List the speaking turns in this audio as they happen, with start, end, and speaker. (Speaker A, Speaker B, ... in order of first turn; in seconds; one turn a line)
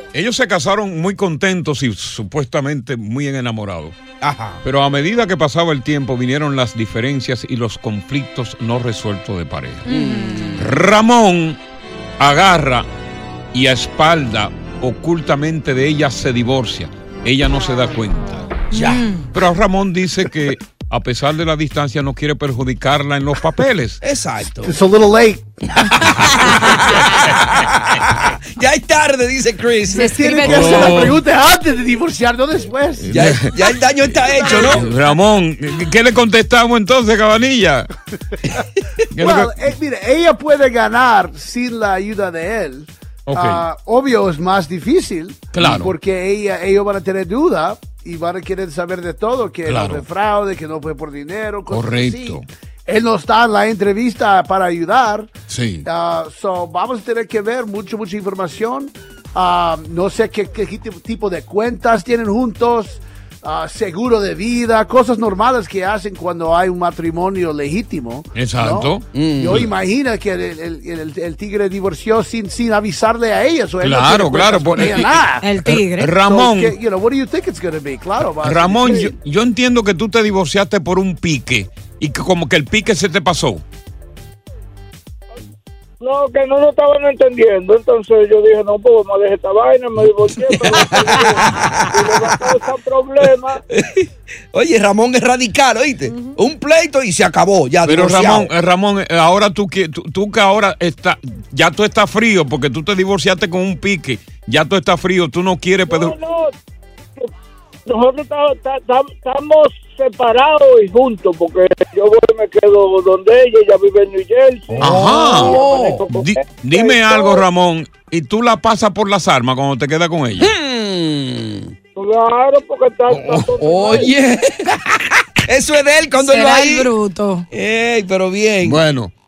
Speaker A: 0.1-4.0
Speaker B: 4.2-4.6
Speaker A: 4.6-9.8
Speaker C: 9.9-10.6
Speaker B: 9.9-10.7
Speaker A: 10.6-11.6
Speaker A: 12.2-12.9
Speaker A: 13.5-18.6
Speaker B: 18.7-19.1
Speaker C: 18.7-19.2
Speaker A: 19.3-24.0
Speaker B: 24.0-24.8
Speaker D: 24.6-26.8
Speaker B: 25.8-30.7
Speaker C: 29.9-31.2
Speaker D: 30.0-33.2
Speaker A: 30.5-31.2
Speaker A: 33.0-37.9
Speaker B: 33.1-34.9
Speaker D: 34.2-35.1
Speaker A: 39.1-39.5
Speaker D: 39.2-55.3
Speaker A: 43.3-43.6
Speaker A: 45.5-45.9
Speaker A: 49.7-50.0
Speaker A: 51.7-52.5
Speaker A: 55.5-55.9
Speaker D: 55.9-75.5
Speaker A: 68.3-69.7
Speaker B: 69.1-69.7
Speaker A: 73.8-76.8
Speaker C: 75.4-76.1
Speaker D: 76.2-79.1
Speaker A: 78.4-83.6
Speaker E: 86.0-93.6
Speaker B: 90.4-92.4
Speaker B: 93.7-98.5
Speaker A: 97.8-106.2
Speaker E: 105.9-106.5
Speaker E: 107.9-117.4
Speaker B: 114.7-116.0
Speaker A: 114.8-120.5
Speaker B: 120.4-121.8
Speaker E: 122.0-124.1
Speaker A: 123.1-123.5
Speaker B: 123.6-126.9
Speaker C: 126.2-127.5
Speaker B: 127.5-128.8
Speaker A: 128.6-129.1